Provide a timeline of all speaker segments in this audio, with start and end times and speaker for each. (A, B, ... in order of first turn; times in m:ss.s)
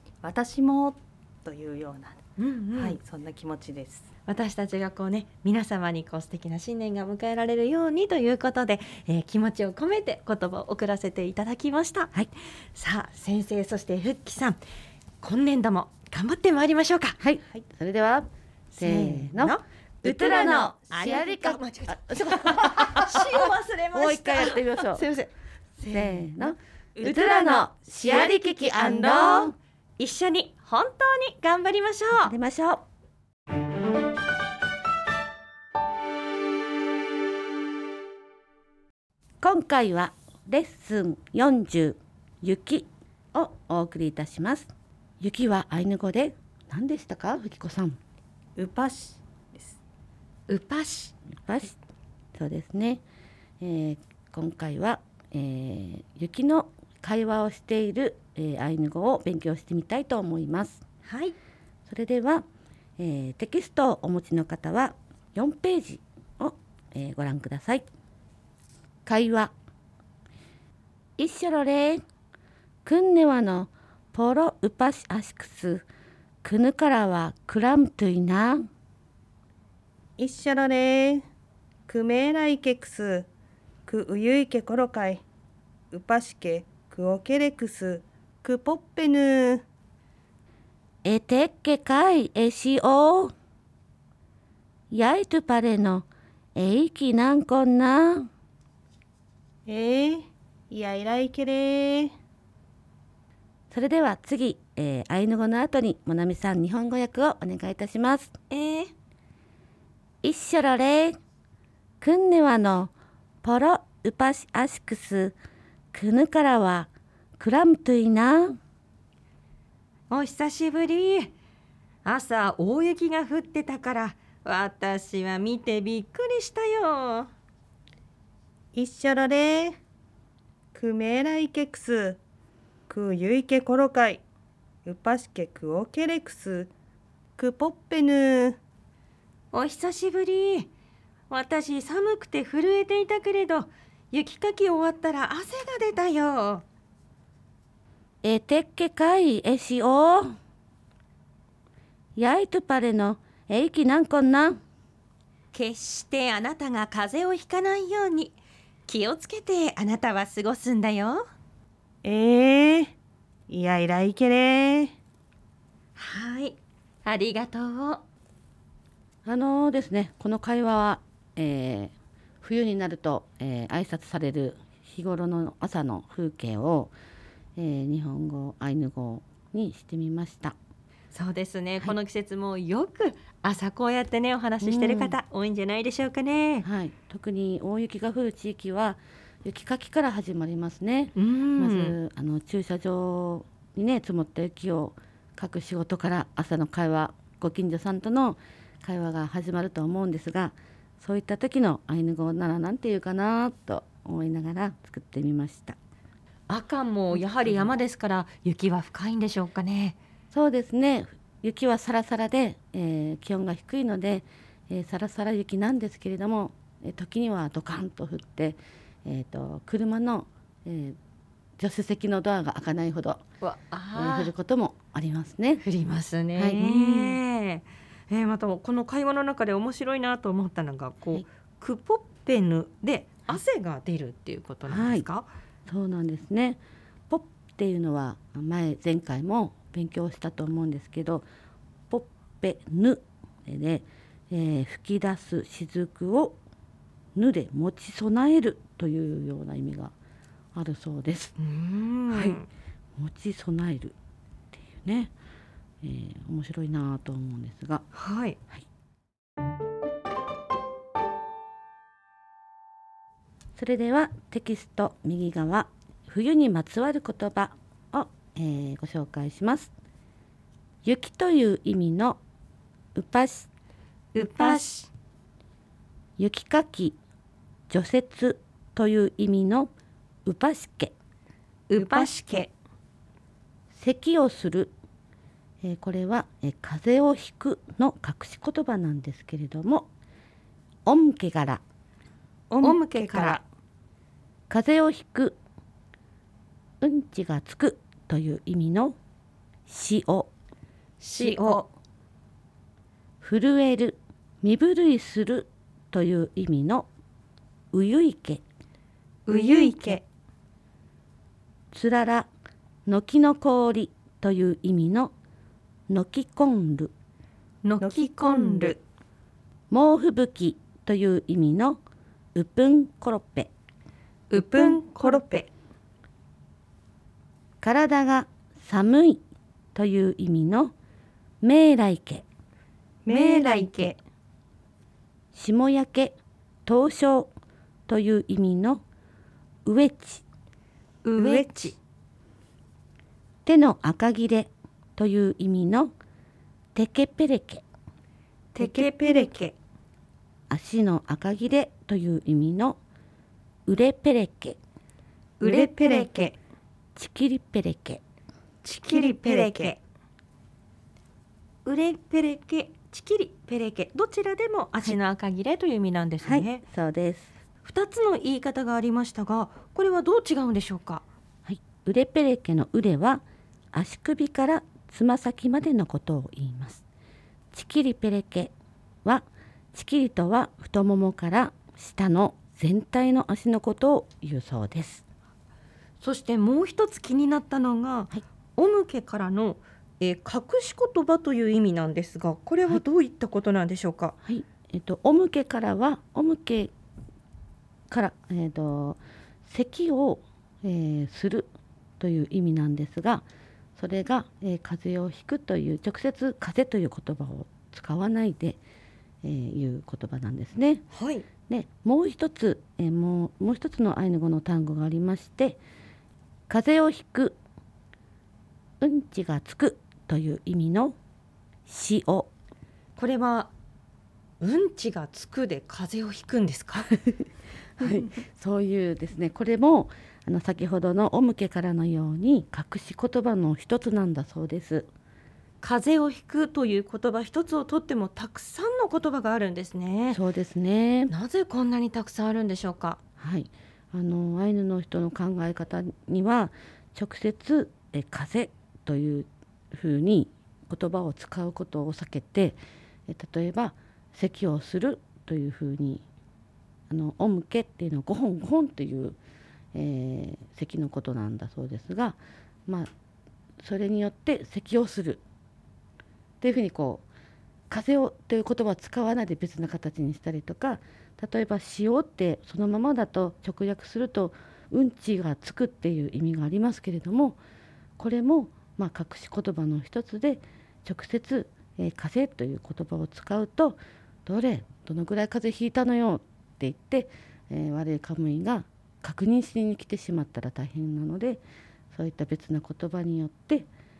0:00.2-0:02.2 A
0:02.4-0:03.0 B
0:02.7-0:04.1 A
0:04.2-0:12.1 B
0:12.7-0:14.6 B
0:15.2-0:17.2 B
0:17.2-0:18.3 C
0:18.7-0:26.2 B
0:18.8-0:25.0 C
0:25.9-0:29.6 C
0:27.0-0:32.3 B
0:32.2-0:32.8 C
0:39.4-0:44.7 C
0:45.2-0:48.0 C
0:48.6-0:49.8 A
0:50.5-0:51.1 B
0:51.4-0:51.7 C
0:52.3-0:53.0 C
0:53.6-1:00.8 C
1:01.0-1:01.3 B
1:01.9-1:02.4 C
1:03.0-1:07.8 C
1:09.0-1:09.5 C
1:11.2-1:12.0 C
1:12.8-1:15.9 C
1:16.4-1:18.6 C
1:20.2-1:21.2 A
1:21.9-1:23.3 A
1:23.8-1:25.2 A
1:25.9-1:29.6 A
1:31.0-1:33.3 C
1:34.9-1:38.3 C
1:39.6-1:42.1 A
1:43.7-1:48.3 C
1:48.5-1:48.9 B
1:50.2-1:51.2 C
1:52.0-1:52.9 C
1:53.4-1:55.4 C
1:55.9-1:58.6 C
2:00.1-2:01.3 B
2:02.0-2:07.3 B
2:08.7-2:09.8 A
2:10.7-2:12.2 A
2:12.9-2:14.2 A
2:14.8-2:16.7 A
2:17.4-2:18.6 A
2:19.5-2:20.7 B
2:21.3-2:26.6 B
2:28.2-2:30.3 C
2:32.2-2:34.6 C
2:35.5-2:41.2 B
2:42.0-2:42.9 A
2:43.5-2:44.9 A
2:46.0-2:48.0 B
2:49.2-2:56.9 C
2:57.6-3:00.5 C
3:01.1-3:06.6 B
3:04.6-3:05.2 C
3:06.6-3:25.8 C
3:11.1-3:12.0 B
3:26.5-3:30.0 B
3:30.3-3:41.0 C
3:41.6-3:43.2 C
3:43.4-3:44.3 B
3:43.9-3:45.6 C
3:45.6-3:55.3 B
3:46.3-3:47.2 C
3:54.7-3:55.0 C
3:55.7-4:01.2 C
4:01.9-4:06.4 C
4:07.2-4:09.9 C
4:10.5-4:11.3 C
4:11.4-4:12.4 B
4:12.1-4:12.4 C
4:13.0-4:13.9 C
4:14.5-4:15.1 C
4:15.8-4:17.8 C
4:17.9-4:18.4 B
4:23.6-4:29.7 C
4:30.8-4:32.2 C
4:32.9-4:33.5 C
4:34.1-4:34.9 B
4:34.2-4:34.6 C
4:36.2-4:37.0 C
4:37.7-4:39.7 C
4:40.2-4:40.9 C
4:41.7-4:42.5 B
4:41.8-4:42.4 A
4:43.8-4:44.7 C
4:45.6-4:49.9 C
4:50.8-4:51.6 C
4:52.5-4:53.4 A
4:52.6-4:53.4 B
4:54.5-4:55.4 C
4:56.8-4:59.0 C
4:59.7-5:00.3 C
5:01.0-5:01.7 B
5:01.2-5:01.6 A
5:03.2-5:06.9 C
5:07.7-5:08.4 C
5:09.3-5:10.0 B
5:09.3-5:10.0 A
5:11.7-5:12.3 C
5:12.8-5:15.1 C
5:15.9-5:16.9 C
5:17.6-5:18.8 B
5:17.8-5:18.8 A
5:19.7-5:21.8 C
5:22.3-5:23.5 C
5:24.3-5:25.4 B
5:24.3-5:25.4 A
5:27.6-5:29.2 C
5:29.7-5:30.7 C
5:31.4-5:32.2 C
5:33.0-5:34.0 A
5:33.1-5:34.0 B
5:35.3-5:37.3 C
5:37.9-5:38.8 C
5:39.6-5:40.2 C
5:41.0-5:41.8 B
5:41.2-5:41.7 A
5:43.4-5:45.9 C
5:46.7-5:47.6 C
5:48.5-5:49.5 B
5:48.6-5:49.5 A
5:50.5-5:52.8 C
5:53.7-5:54.6 C
5:55.4-5:56.4 B
5:55.4-5:56.3 A
5:57.0-5:58.0 C
5:58.6-5:59.8 B
5:58.9-5:59.7 A
6:01.6-6:06.6 B
6:06.2-6:07.3 C
6:07.6-6:11.0 B
6:11.4-6:16.8 C
6:17.5-6:18.5 C
6:19.0-6:25.0 C
6:26.0-6:34.1 B
6:34.2-6:36.7 C
6:37.9-6:43.2 C
6:43.8-6:48.6 C
6:49.2-6:50.8 C
6:50.9-6:51.2 B
6:51.5-6:55.6 C
6:56.5-6:57.4 C
6:58.8-7:01.0 C
7:01.7-7:02.3 C
7:03.0-7:03.5 B
7:04.4-7:06.9 B
7:07.8-7:14.9 C
7:15.6-7:20.2 B
7:20.1-7:21.1 C
7:21.1-7:23.0 B
7:23.2-7:36.0 C
7:36.9-7:39.2 C
7:39.7-7:42.9 C
7:43.6-7:45.2 C
7:46.4-7:47.0 C
7:47.7-7:57.4 C
7:58.0-8:11.4 C
8:11.9-8:13.7 C